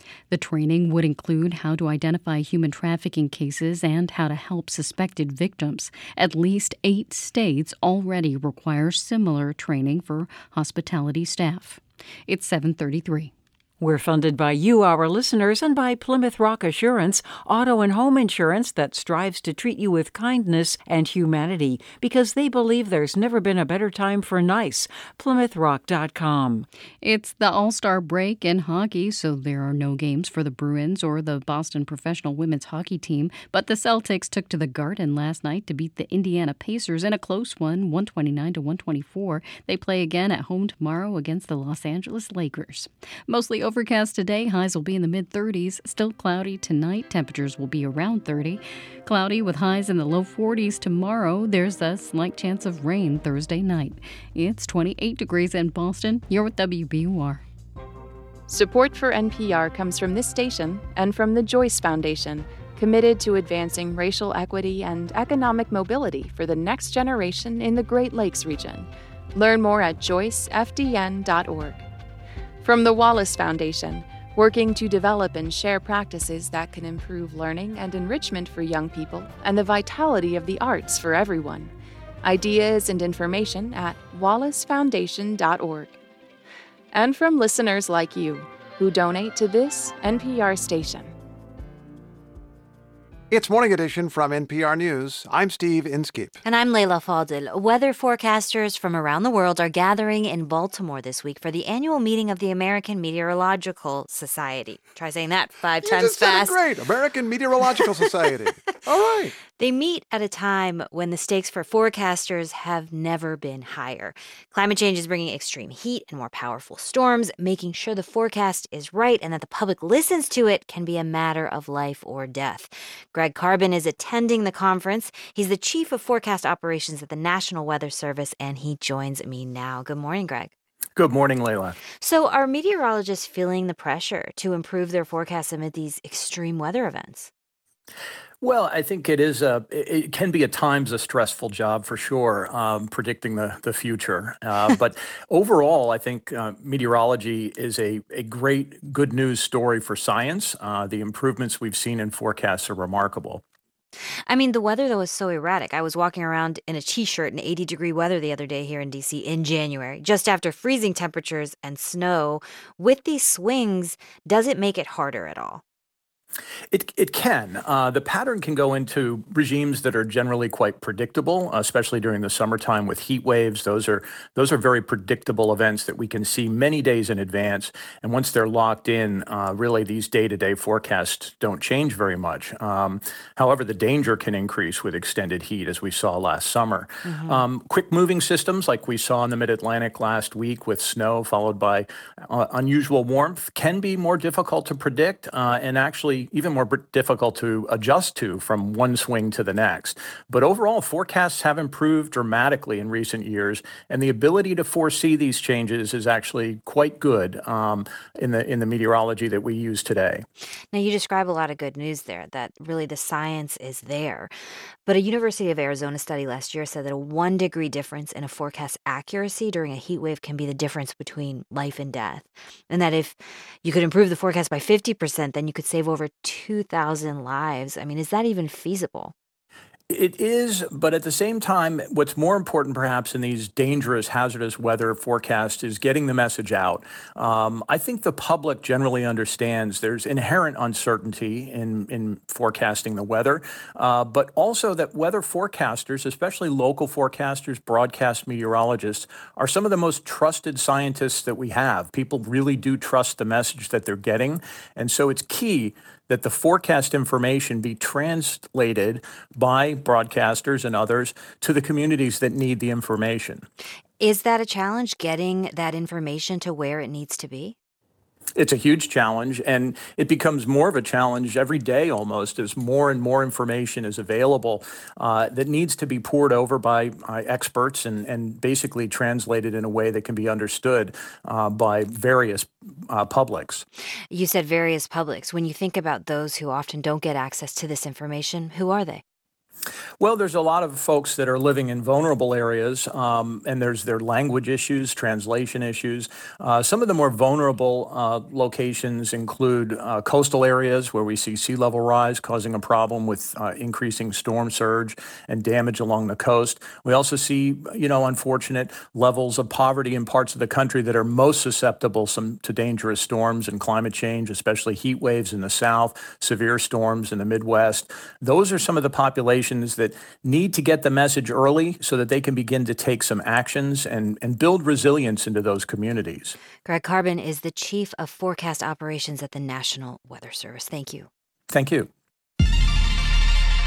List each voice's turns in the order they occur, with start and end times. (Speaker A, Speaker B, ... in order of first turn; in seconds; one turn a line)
Speaker A: 0.3-13.3
Speaker B: 13.8-20.0
Speaker B: 21.4-24.9
Speaker B: 25.4-26.6
Speaker A: 27.0-57.4
Speaker C: 58.5-71.8
Speaker C: 72.6-85.9
Speaker C: 86.9-91.1
Speaker D: 93.3-96.4
Speaker E: 96.4-106.6
Speaker D: 105.8-109.3
Speaker E: 109.4-130.5
Speaker F: 130.9-131.8
Speaker E: 132.0-137.3
Speaker F: 138.4-153.4
Speaker E: 154.3-165.6
Speaker F: 166.7-210.2
Speaker E: 187.1-187.4
Speaker E: 210.7-214.3
Speaker E: 214.8-229.1
Speaker F: 229.9-263.4
Speaker E: 264.0-267.6
Speaker F: 268.4-283.6
Speaker E: 284.1-289.0
Speaker F: 290.0-326.3
Speaker E: 326.6-331.1
Speaker F: 331.5-331.9